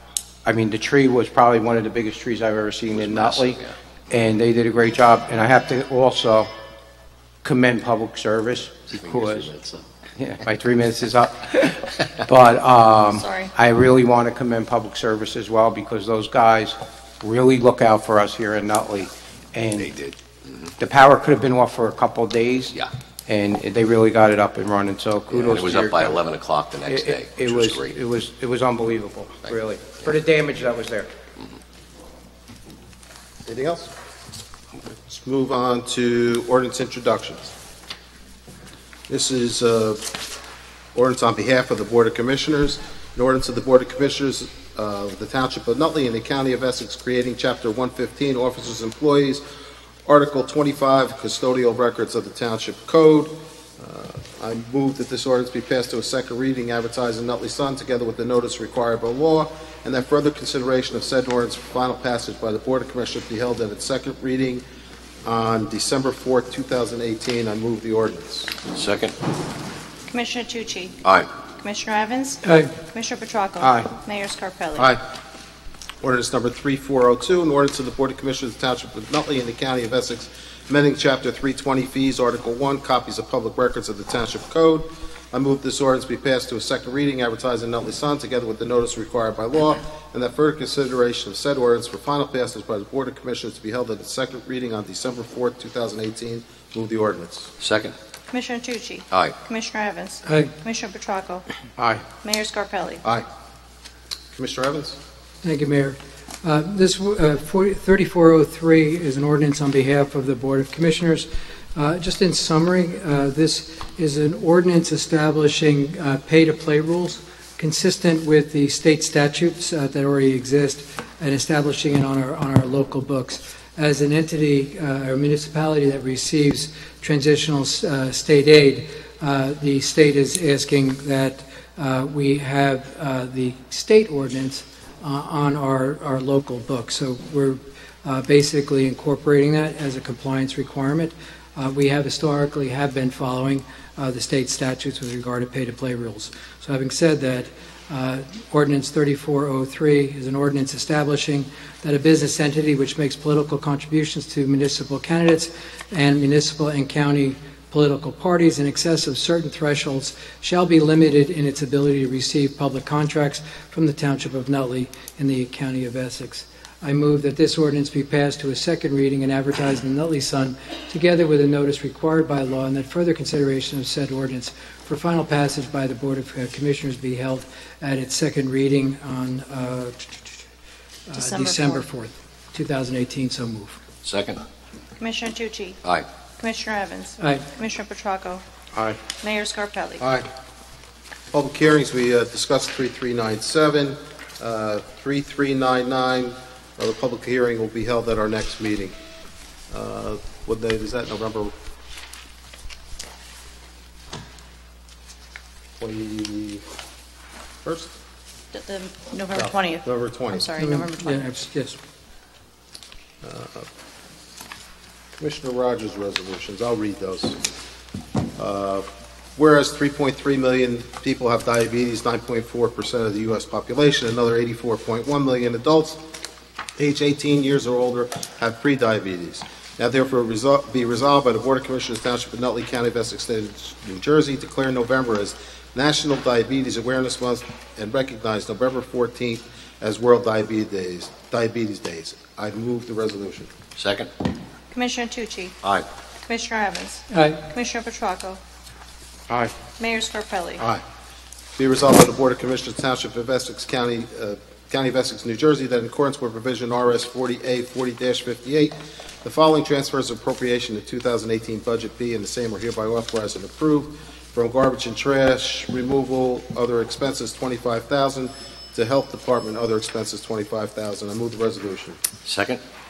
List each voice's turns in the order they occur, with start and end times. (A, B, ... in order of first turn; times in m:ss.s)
0:00.5-0:06.5 A
0:02.9-0:03.8 B
0:07.4-0:09.5 A
0:08.9-0:09.9 B
0:10.2-0:20.0 A
0:13.1-0:13.5 C
0:19.8-0:20.7 B
0:20.8-0:26.2 A
0:25.3-0:28.0 B
0:26.9-0:31.1 A
0:33.5-0:33.9 D
0:34.9-0:37.5 D
0:39.1-0:40.0 D
0:41.0-0:49.4 D
0:50.1-1:04.6 D
1:05.2-1:08.6 D
1:08.7-1:09.1 B
1:10.1-1:11.0 C
1:11.6-1:12.4 C
1:12.4-1:12.7 E
1:12.9-1:14.9 C
1:13.6-1:13.9 A
1:16.0-1:37.5 D
1:37.6-1:37.9 B
1:38.3-1:41.5 C
1:40.2-1:40.6 E
1:41.8-1:42.0 A
1:42.2-1:43.0 C
1:44.3-1:45.0 D
1:45.4-3:00.1 E
3:01.1-3:03.8 E
3:01.2-3:01.8 C
3:04.0-3:04.4 B
3:05.0-3:05.8 C
3:06.4-3:08.4 C
3:07.2-3:07.5 E
3:08.7-3:09.0 A
3:09.2-3:10.0 C
3:10.0-3:10.3 D
3:11.3-3:19.0 D
3:19.7-3:21.5 D
3:25.8-3:26.6 D
3:27.6-3:27.9 D
3:28.5-3:31.2 C
3:29.3-3:30.4 D
3:30.6-3:31.8 E
3:33.2-3:33.7 D
3:35.2-3:37.4 D
3:38.4-3:46.0 D
3:46.8-4:03.5 D
4:03.8-4:04.1 B
4:04.7-4:05.6 C
4:06.2-4:08.4 C
4:07.1-4:07.5 E
4:09.8-4:10.6 C
4:11.6-4:32.0 D
4:32.2-4:32.6 B